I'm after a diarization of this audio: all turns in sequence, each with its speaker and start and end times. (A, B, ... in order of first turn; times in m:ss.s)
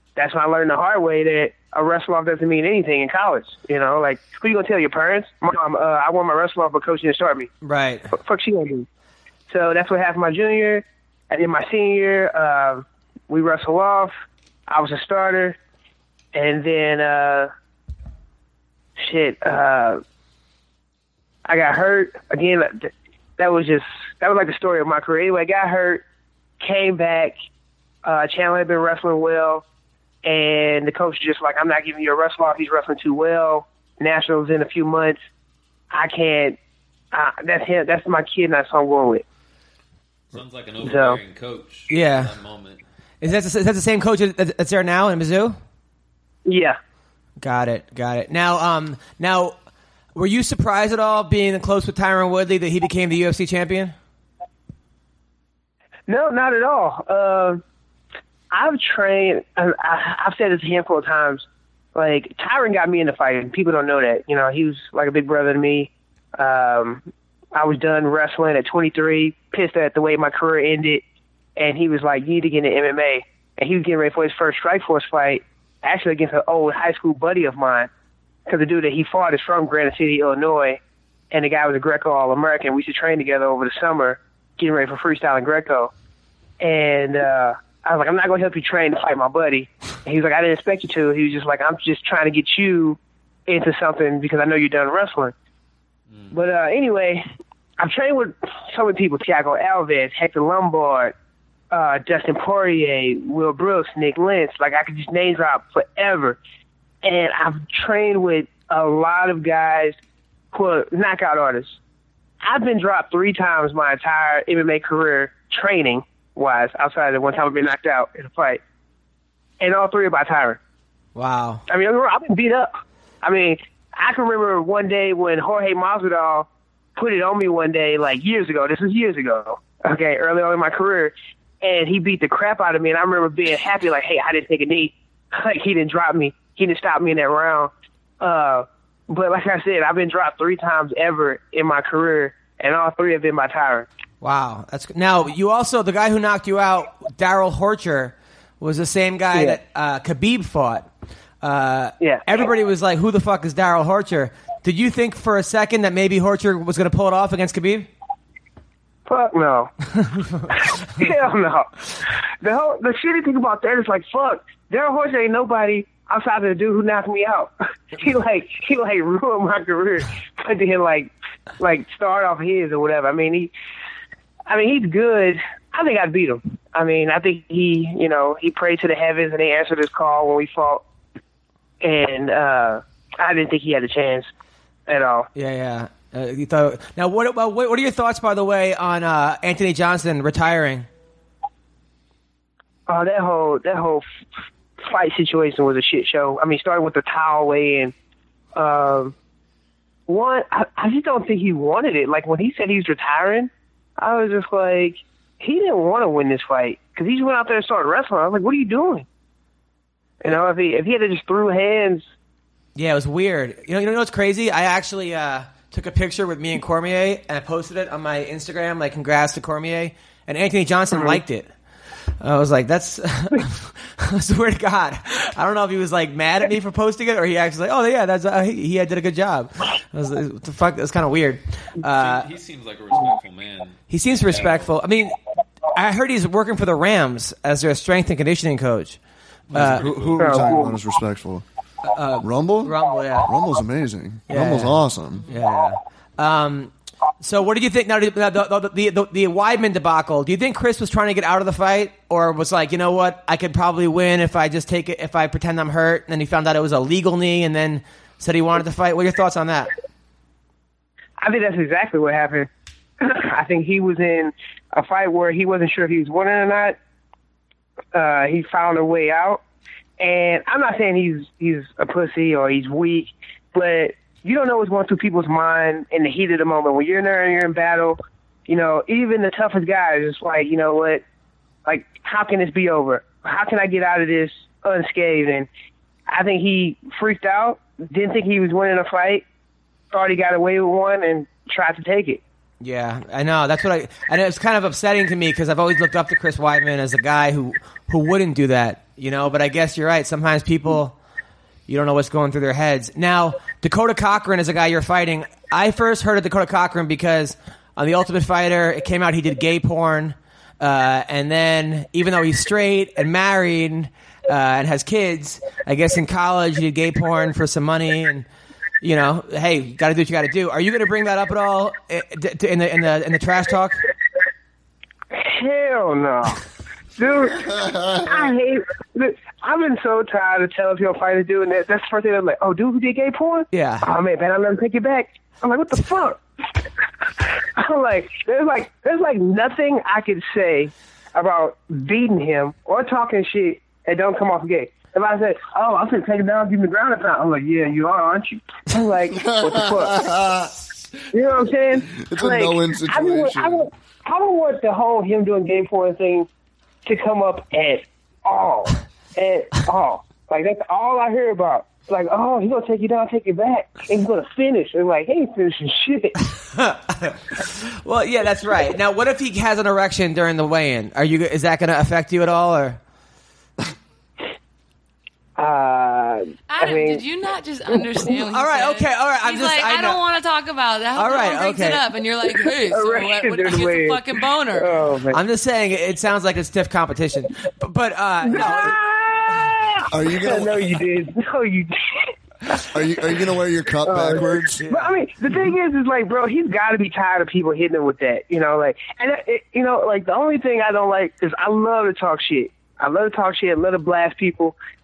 0:00.2-0:07.5 A
0:07.6-0:08.1 B
0:08.1-0:08.9 A
0:09.5-0:14.1 A
0:14.7-0:15.6 A
0:16.3-0:17.5 A
0:19.0-0:20.0 A
0:21.4-0:26.0 A
0:26.6-0:27.4 A
0:28.0-0:29.6 A
0:30.2-0:35.2 A
0:35.9-0:36.6 A
0:37.1-0:39.2 A
0:40.3-0:42.8 C
0:40.8-0:41.2 A
0:41.9-0:42.3 B
0:43.2-0:45.6 B
0:46.4-0:46.8 A
0:47.4-0:49.6 B
0:50.2-0:54.0 B
0:56.1-0:57.6 A
0:58.5-1:11.0 A
1:11.6-1:17.9 A
1:18.5-1:20.8 A
1:21.3-1:25.9 A
1:26.6-1:35.3 A
1:36.3-1:37.2 A
1:37.8-1:41.1 A
1:41.7-1:46.4 A
1:47.0-1:50.0 A
1:50.5-1:51.8 A
1:52.4-1:58.6 A
1:59.6-2:00.6 A
2:01.2-2:01.6 B
2:01.7-2:23.9 A
2:24.2-2:30.9 B
2:29.3-2:29.6 A
2:31.4-2:37.9 B
2:32.0-2:32.4 A
2:39.1-2:39.7 A
2:40.5-2:53.5 A
2:54.5-3:00.8 A
3:01.8-3:04.3 A
3:04.9-3:05.3 A
3:05.4-3:10.9 B
3:12.9-3:14.0 A
3:14.8-3:17.9 A
3:18.6-3:19.1 A
3:20.1-3:29.1 A
3:30.2-3:32.1 A
3:32.8-3:41.5 B
3:40.9-3:41.2 A
3:42.2-3:52.3 B
3:51.8-3:54.7 C
3:53.9-3:55.1 B
3:55.7-3:59.0 B
3:59.5-4:00.3 C
3:59.5-3:59.9 B
3:59.5-4:01.4 D
4:00.2-4:00.8 A
4:01.8-4:03.3 B
4:02.2-4:05.3 D
4:04.3-4:19.7 B
4:21.2-4:26.8 A
4:27.9-4:29.4 A
4:30.0-4:41.0 A
4:41.6-4:45.5 A
4:46.1-4:49.2 A
4:49.9-4:52.2 A
4:52.6-5:01.0 B
5:01.7-5:18.3 B
5:18.8-5:23.8 B
5:25.1-5:26.4 A
5:27.0-5:36.2 A
5:27.6-5:28.1 D
5:33.5-5:33.9 B
5:37.6-5:50.1 A
5:49.2-5:50.5 D
5:51.1-5:56.3 A
5:52.0-5:53.7 D
5:56.8-6:06.2 A
6:06.5-6:12.8 B
6:15.4-6:17.0 A
6:16.5-6:24.9 E
6:18.2-6:20.0 B
6:21.0-6:21.8 B
6:22.6-6:24.0 A
6:24.5-6:25.2 A
6:25.1-6:28.8 B
6:28.2-6:32.6 A
6:29.9-6:30.7 D
6:32.7-6:34.6 D
6:33.8-6:44.6 A
6:34.6-6:35.0 B